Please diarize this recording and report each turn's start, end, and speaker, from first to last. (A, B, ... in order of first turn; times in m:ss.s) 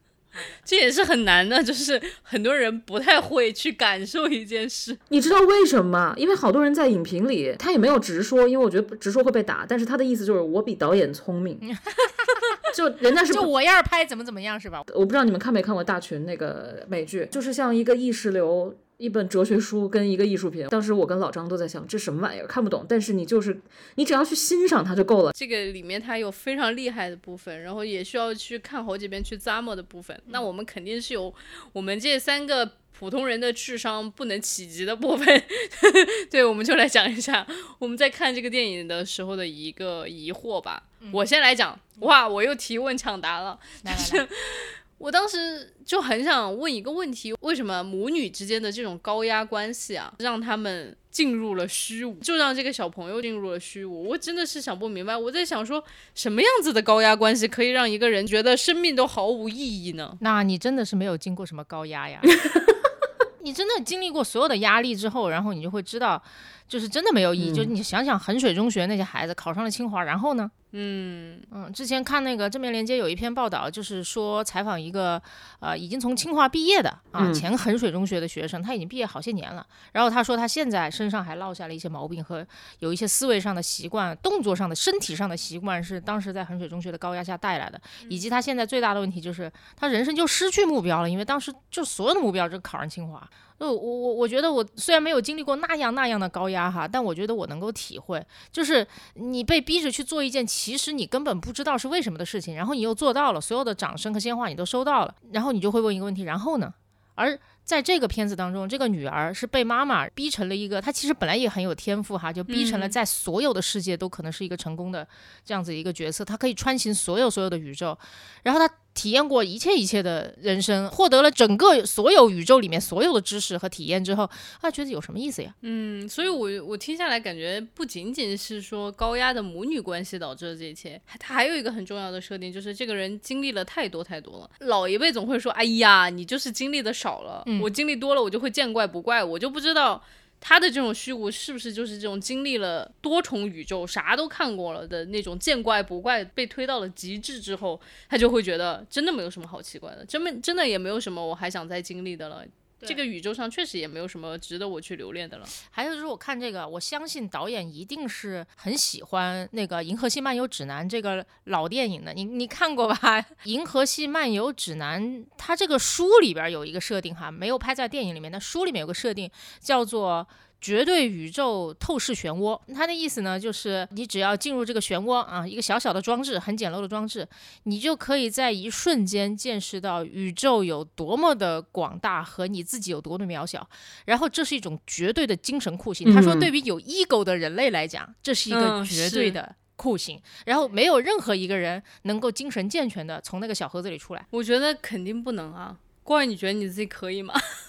0:00.6-0:05.0 A
0:05.1-0:11.6 B
0:12.7-0:13.5 B
0:13.3-0:14.9 C
0:14.9-0:25.3 B
0:25.4-1:00.2 A
0:43.8-0:44.2 C
1:00.2-1:02.4 C
1:03.4-1:10.5 C
1:07.4-1:07.7 B
1:10.7-1:11.5 A
1:11.5-2:05.5 C
1:17.2-1:17.5 B
1:52.5-1:53.0 A
2:05.6-2:35.5 A
2:35.7-3:14.3 C
3:06.0-3:06.5 B
3:08.5-3:09.4 A
3:14.3-3:17.4 A